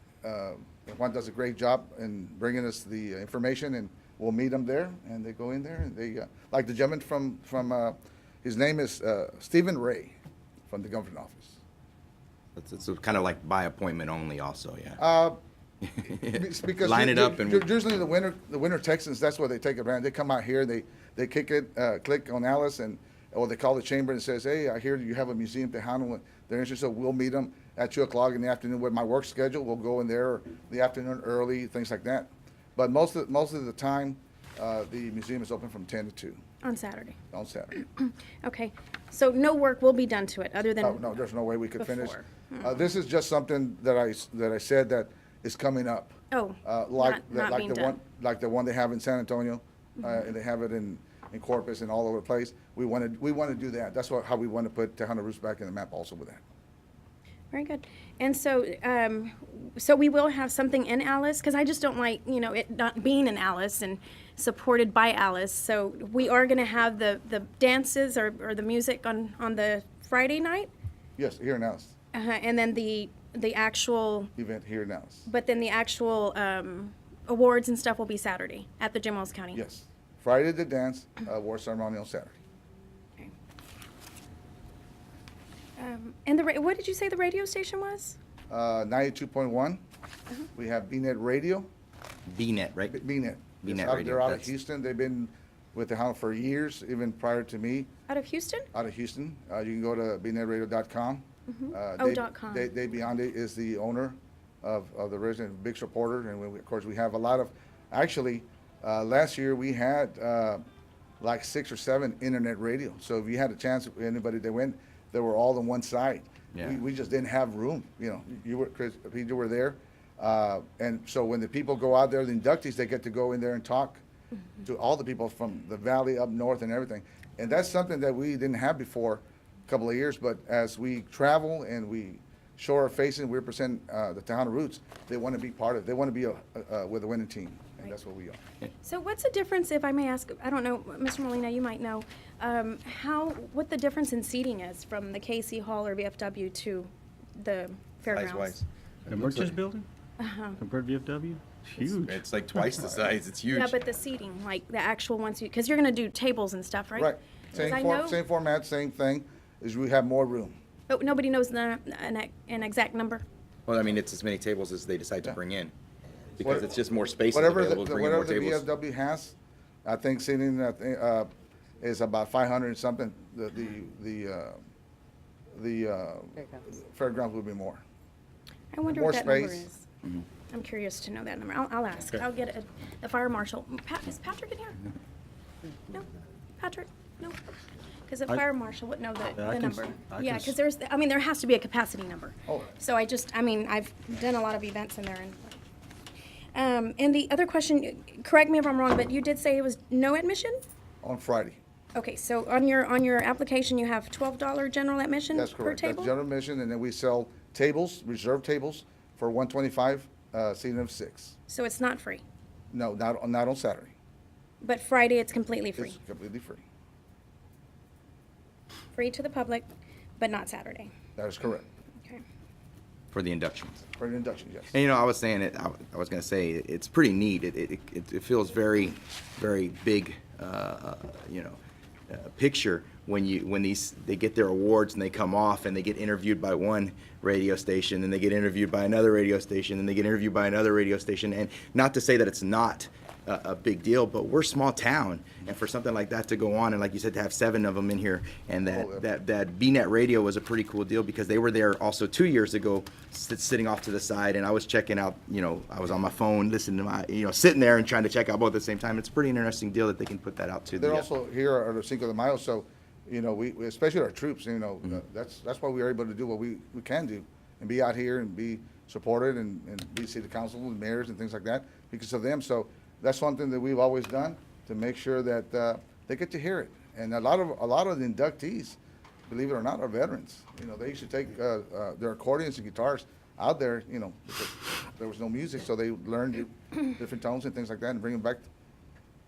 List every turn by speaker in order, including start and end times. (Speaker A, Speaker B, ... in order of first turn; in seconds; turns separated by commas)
Speaker A: 0.2-10.2, Speaker A: 10.7-11.6, Speaker B: 12.6-15.0, Speaker A: 15.0-15.4, Speaker B: 15.9-17.7, Speaker A: 16.0-36.4, Speaker C: 36.6-37.1, Speaker A: 37.3-37.8, Speaker C: 37.7-41.0, Speaker A: 40.8-56.4, Speaker C: 41.8-42.6, Speaker C: 46.3-48.0, Speaker C: 57.5-70.7, Speaker A: 71.2-71.9, Speaker C: 72.1-74.3, Speaker A: 74.4-75.3, Speaker C: 75.3-79.6, Speaker A: 79.5-82.4, Speaker C: 85.8-88.2, Speaker A: 88.5-89.8, Speaker A: 90.5-91.7, Speaker B: 92.3-93.0, Speaker A: 92.9-97.9, Speaker B: 93.6-94.5, Speaker C: 98.1-98.7, Speaker A: 98.7-110.6, Speaker C: 101.5-102.7, Speaker A: 111.2-124.0, Speaker A: 124.6-138.4, Speaker C: 138.8-148.6, Speaker B: 148.1-149.5, Speaker D: 149.1-149.8, Speaker C: 150.2-150.6, Speaker D: 150.6-153.0, Speaker B: 152.0-153.7, Speaker C: 153.5-158.2, Speaker A: 156.9-160.6, Speaker C: 160.9-163.2, Speaker B: 163.7-165.7, Speaker B: 166.4-168.7, Speaker A: 166.4-166.7, Speaker A: 167.3-169.3, Speaker A: 169.8-171.3, Speaker A: 171.8-174.6, Speaker A: 175.5-177.8, Speaker C: 178.7-179.8, Speaker A: 178.9-179.7, Speaker C: 180.5-184.8, Speaker C: 185.9-195.6, Speaker D: 189.3-190.5, Speaker A: 192.5-192.7, Speaker C: 196.5-200.6, Speaker A: 201.0-201.6, Speaker C: 201.9-206.1, Speaker A: 205.3-211.3, Speaker C: 211.5-212.2, Speaker A: 212.7-213.9, Speaker C: 214.6-216.0, Speaker A: 215.8-216.6, Speaker C: 218.9-219.7, Speaker C: 220.2-220.9, Speaker A: 221.2-221.7, Speaker B: 223.1-223.8, Speaker A: 224.0-224.7, Speaker B: 224.7-231.6, Speaker B: 232.1-261.1, Speaker A: 248.6-249.0, Speaker A: 260.7-288.4